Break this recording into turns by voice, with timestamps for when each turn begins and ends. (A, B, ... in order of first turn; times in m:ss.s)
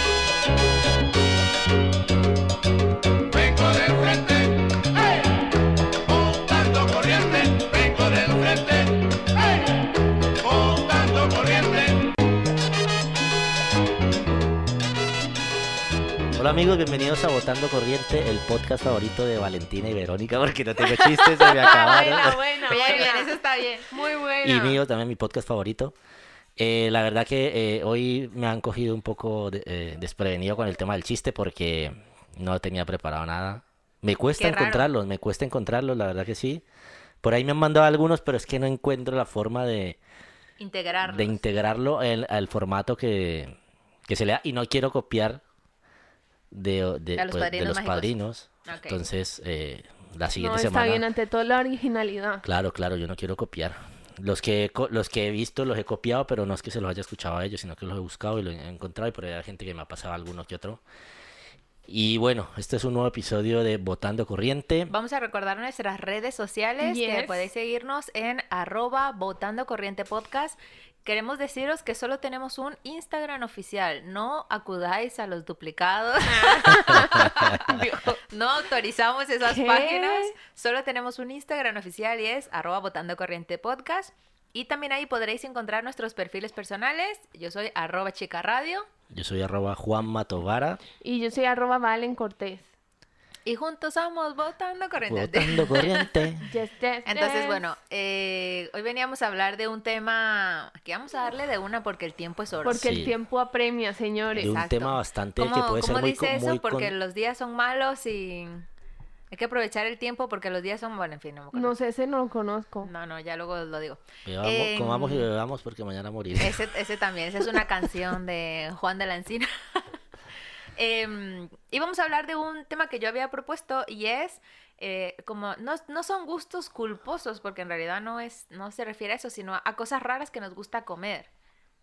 0:03.3-0:12.1 A
0:16.4-0:23.1 B
0:20.9-0:24.6 C
0:21.5-0:23.3 D
0:23.9-0:24.7 D
0:24.4-0:26.0 B
0:26.6-0:36.6 B
0:34.4-0:34.9 C
0:37.2-0:40.0 B
0:40.6-0:41.4 C
0:41.0-0:43.6 B
0:44.1-0:45.4 B
0:46.5-0:51.0 B
0:47.2-0:48.1 C
0:48.6-0:49.0 C
0:50.4-0:52.4 D
0:52.4-1:00.8 B
1:01.9-1:04.9 B
1:04.9-1:17.8 C
1:06.8-1:07.5 D
1:16.3-1:18.2 D
1:16.9-1:17.6 B
1:18.3-1:28.9 C
1:19.4-1:20.4 D
1:29.1-1:30.8 B
1:31.0-1:32.7 D
1:33.5-1:36.2 C
1:35.1-1:36.4 B
1:36.4-1:37.6 D
1:37.1-1:42.9 C
1:42.6-1:44.6 D
1:42.8-1:43.1 B
1:44.3-1:46.9 B
1:44.4-1:48.7 C
1:49.3-1:51.8 C
1:51.5-1:52.9 D
1:52.8-1:55.3 C
1:54.2-1:56.7 B
1:56.4-1:59.8 C
2:00.8-2:11.3 C